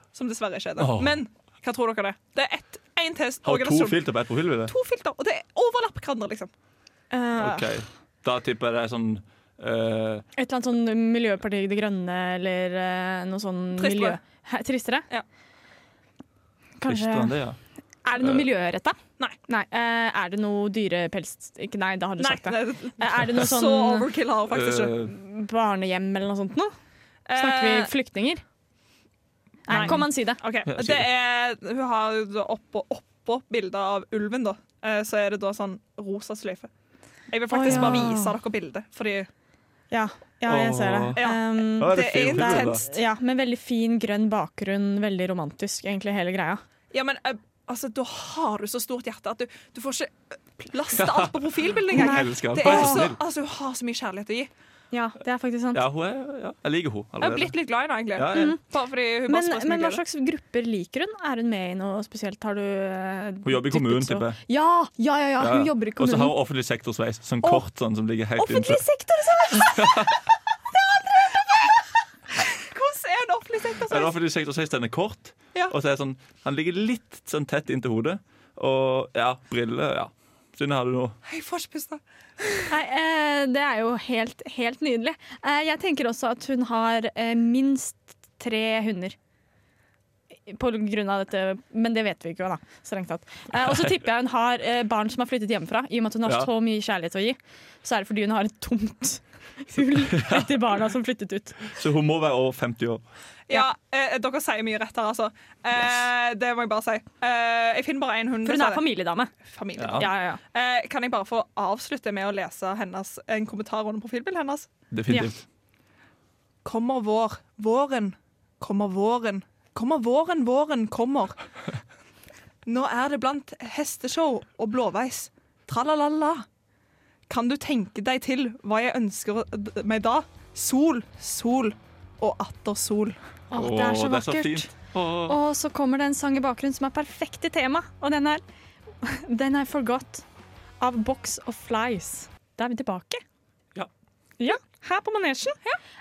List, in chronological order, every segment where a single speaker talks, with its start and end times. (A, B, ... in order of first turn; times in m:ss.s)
0:00.1-0:04.0 A
0:00.8-0:01.2 B
0:03.4-0:04.7 B
0:04.7-0:06.5 A
0:07.1-0:07.8 C
0:07.4-0:10.2 B
0:10.4-0:15.1 C
0:13.8-0:14.2 A
0:16.8-0:17.4 C
0:16.8-0:17.6 B
0:18.0-0:24.1 C
0:18.2-0:18.5 B
0:22.2-0:25.0 A
0:24.5-0:25.1 B
0:25.1-0:26.7 C
0:27.3-0:27.9 A
0:27.3-0:28.4 C
0:29.7-0:30.4 C
0:29.7-0:36.7 A
0:29.7-0:30.1 B
0:30.7-0:31.1 B
0:37.3-0:39.3 A
0:37.5-0:38.3 C
0:39.9-0:46.6 C
0:40.5-0:41.2 B
0:41.1-0:43.0 A
0:41.8-0:42.8 B
0:46.9-0:54.5 A
0:51.0-0:53.2 B
0:51.9-0:53.1 C
0:54.9-0:55.8 C
0:55.7-0:57.6 B
0:57.2-1:00.0 A
0:58.1-0:58.6 B
0:58.3-0:58.6 C
0:59.3-1:06.4 C
1:03.4-1:04.4 B
1:05.4-1:08.8 B
1:08.4-1:10.2 C
1:09.5-1:10.2 B
1:11.1-1:11.8 A
1:12.4-1:14.1 A
1:13.9-1:21.2 B
1:21.2-1:22.7 A
1:22.7-1:29.2 C
1:30.5-1:41.6 C
1:36.2-1:36.5 B
1:39.9-1:40.8 B
1:41.7-1:43.0 B
1:43.5-1:48.8 A
1:48.4-1:49.3 C
1:49.4-1:54.7 A
1:49.8-1:50.1 B
1:50.0-1:50.4 C
1:54.9-1:55.4 B
1:56.6-2:01.4 A
2:02.6-2:06.4 A
2:07.3-2:13.2 A
2:13.5-2:14.7 C
2:13.5-2:15.4 B
2:15.3-2:18.4 C
2:19.0-2:20.2 C
2:20.8-2:23.2 C
2:24.4-2:25.6 C